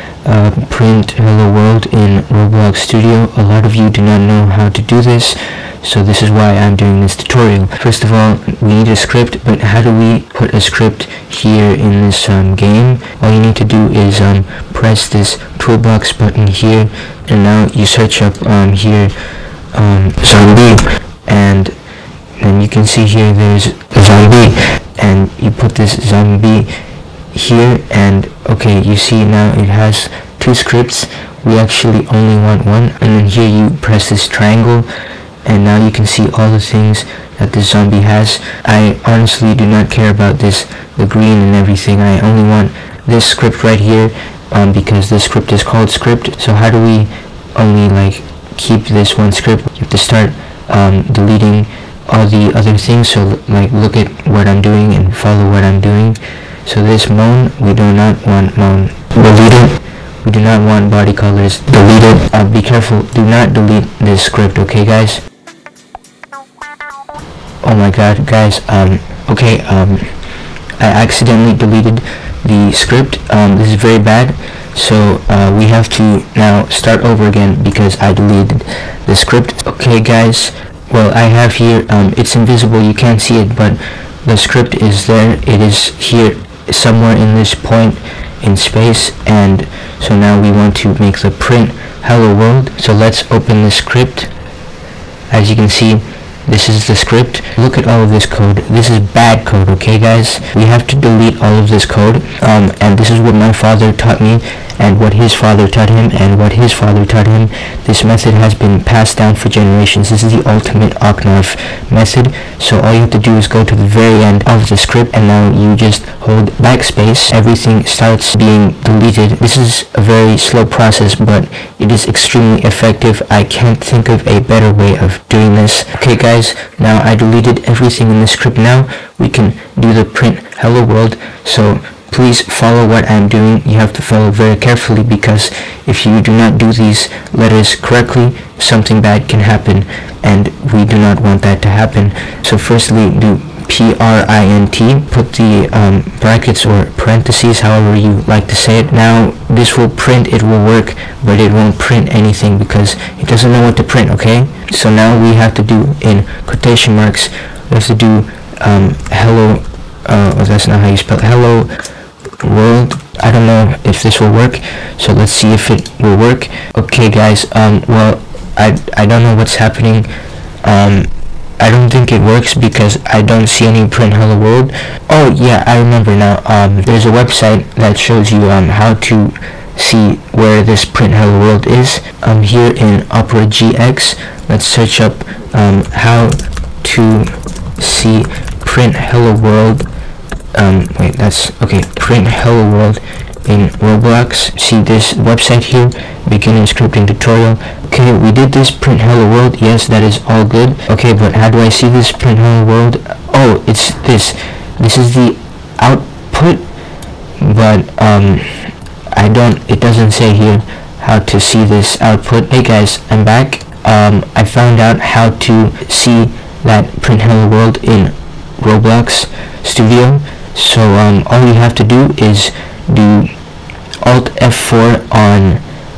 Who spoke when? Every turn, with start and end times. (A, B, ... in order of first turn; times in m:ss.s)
0:00.2-0:19.1 A
0:19.7-0:21.7 A
0:22.4-0:26.7 A
0:27.3-0:34.9 A
0:35.4-1:05.2 A
1:07.6-1:10.1 A
1:10.8-1:34.3 A
1:35.3-2:41.8 A
2:42.4-2:50.1 A
2:50.6-3:09.8 A
3:10.5-3:26.6 A
3:27.4-3:43.3 A
3:44.0-3:45.6 A